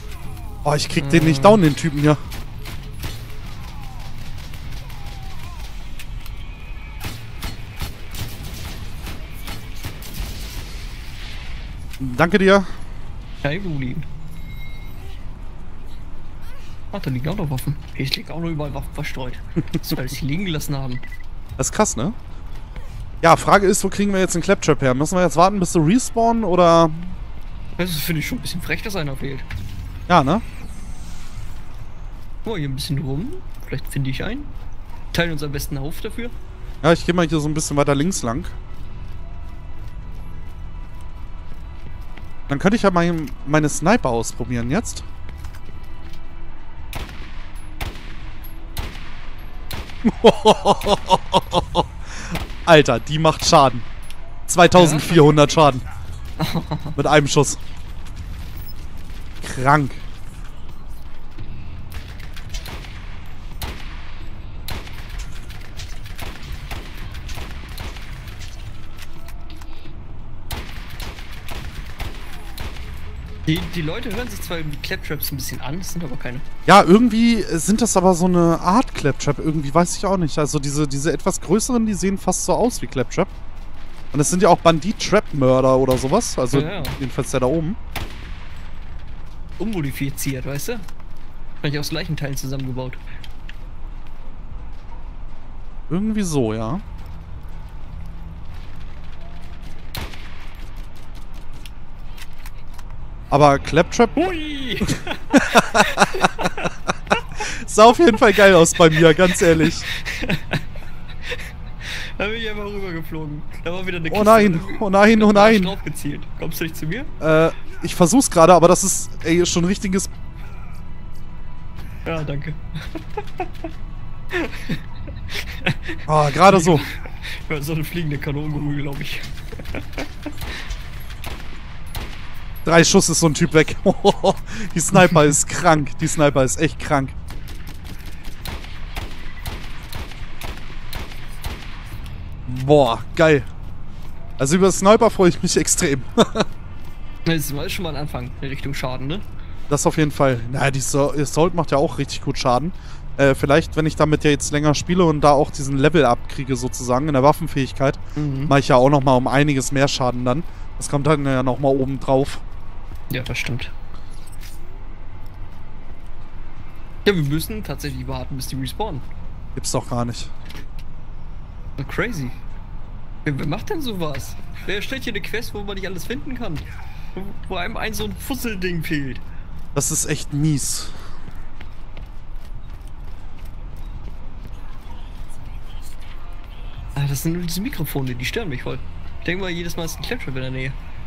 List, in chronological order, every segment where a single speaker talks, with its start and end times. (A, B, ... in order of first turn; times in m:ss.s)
0:00.6-0:02.2 A
0:01.0-0:01.6 B
0:12.0-0:12.7 A
0:13.4-0:14.1 B
0:16.9-0:21.0 B
0:21.6-0:22.2 A
0:23.2-0:27.2 A
0:27.8-0:29.5 B
0:30.1-0:30.4 A
0:32.4-0:34.5 B
0:35.1-0:36.4 B
0:36.8-0:38.5 A
0:42.5-0:45.0 A
0:50.0-0:53.9 A
0:54.5-0:55.8 A
0:54.8-0:55.4 B
0:56.4-0:57.0 B
0:57.0-0:57.6 A
0:59.4-1:00.0 A
1:13.5-1:16.5 B
1:16.7-1:23.3 A
1:24.1-1:27.8 A
1:26.5-1:27.0 B
1:29.6-1:30.9 B
1:31.6-1:33.0 B
1:35.9-1:36.8 A
1:43.3-1:44.3 A
1:44.2-1:47.2 B
1:45.3-1:46.7 A
1:47.4-1:49.9 A
1:48.8-1:50.6 B
1:51.3-1:57.1 B
1:54.1-1:55.8 A
1:57.2-2:00.1 A
2:02.0-2:03.7 B
2:04.3-2:10.6 B
2:06.1-2:06.9 A
2:12.6-2:17.2 A
2:22.5-2:23.5 A
2:24.4-2:26.5 A
2:27.3-2:29.3 B
2:29.7-2:42.4 A
2:38.2-2:38.5 B
2:43.1-2:43.7 B
2:47.0-2:49.1 B
2:49.6-2:50.3 A
2:51.8-2:52.4 B
2:53.2-2:59.2 B
2:59.8-3:01.0 A
3:07.0-3:10.8 B